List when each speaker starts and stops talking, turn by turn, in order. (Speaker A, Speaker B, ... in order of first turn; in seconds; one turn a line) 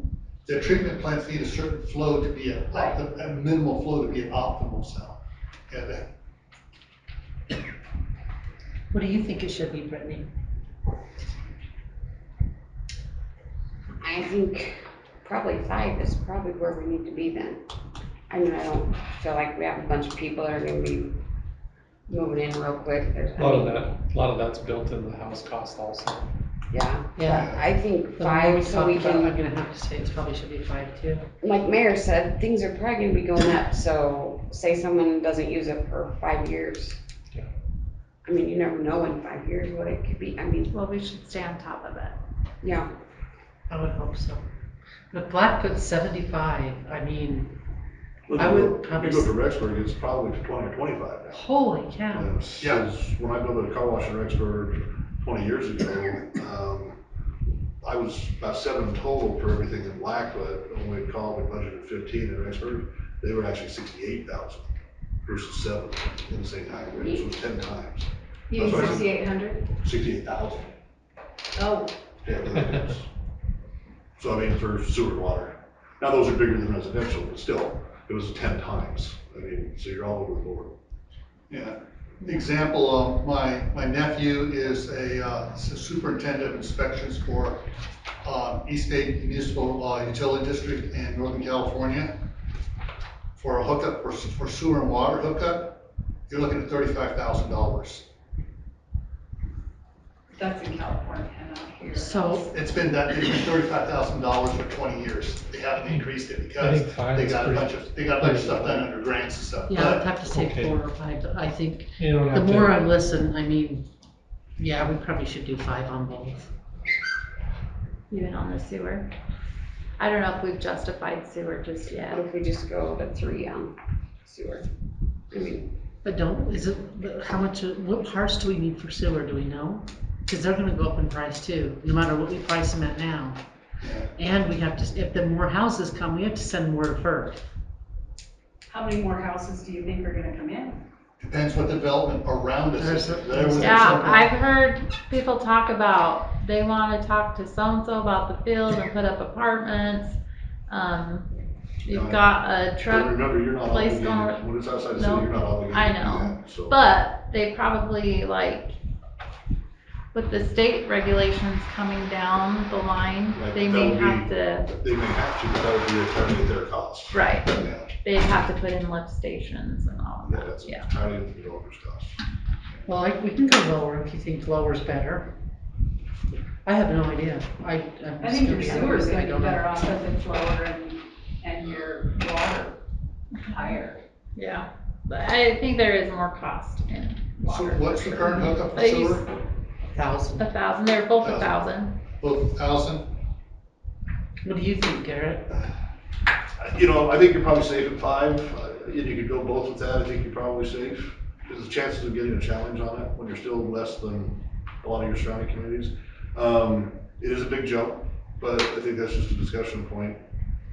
Speaker A: 0.4-6.0
Speaker B: 8.9-10.3
Speaker C: 14.0-17.6
Speaker C: 18.3-21.1
Speaker C: 22.1-23.9
Speaker D: 23.4-26.3
Speaker C: 26.7-29.4
Speaker B: 27.1-27.5
Speaker B: 28.0-31.2
Speaker C: 31.4-37.0
Speaker C: 38.2-40.7
Speaker E: 40.7-42.1
Speaker C: 42.6-42.9
Speaker B: 43.7-44.4
Speaker B: 45.1-47.5
Speaker F: 48.3-51.5
Speaker B: 48.3-49.3
Speaker B: 51.3-52.3
Speaker F: 52.1-57.0
Speaker F: 57.8-64.7
Speaker F: 65.2-69.1
Speaker G: 68.5-69.7
Speaker C: 68.8-69.0
Speaker F: 69.8-70.7
Speaker G: 71.6-71.9
Speaker F: 72.2-73.1
Speaker F: 74.2-80.7
Speaker A: 81.5-87.7
Speaker A: 88.2-92.1
Speaker A: 93.3-98.1
Speaker G: 100.3-102.5
Speaker B: 101.9-102.5
Speaker A: 102.5-110.1
Speaker D: 105.8-108.9
Speaker B: 109.7-113.8
Speaker D: 110.2-110.8
Speaker D: 112.0-112.8
Speaker B: 114.6-116.5
Speaker E: 118.1-119.1
Speaker E: 120.0-122.2
Speaker C: 122.0-123.7
Speaker C: 124.2-124.6
Speaker C: 125.3-125.7
Speaker B: 126.0-133.4
Speaker A: 133.8-134.1
Speaker B: 134.2-137.4
Speaker G: 138.7-140.8
Speaker A: 141.2-144.2
Speaker B: 142.8-144.3
Speaker E: 143.6-150.2
Speaker E: 150.7-151.3
Speaker E: 151.8-158.7
Speaker F: 151.8-156.8
Speaker E: 160.1-164.7
Speaker F: 163.3-167.2
Speaker E: 167.1-167.5
Speaker A: 167.6-167.9
Speaker E: 168.0-170.9
Speaker F: 170.2-172.2
Speaker B: 172.8-175.3
Speaker B: 176.6-180.0
Speaker G: 178.2-182.8
Speaker E: 178.6-179.0
Speaker E: 183.4-183.8
Speaker G: 183.5-184.0
Speaker E: 184.3-189.2
Speaker A: 187.4-189.3
Speaker B: 189.8-190.5
Speaker E: 190.4-191.9
Speaker A: 191.2-191.6
Speaker A: 192.2-193.1
Speaker B: 194.4-195.5
Speaker F: 196.6-210.2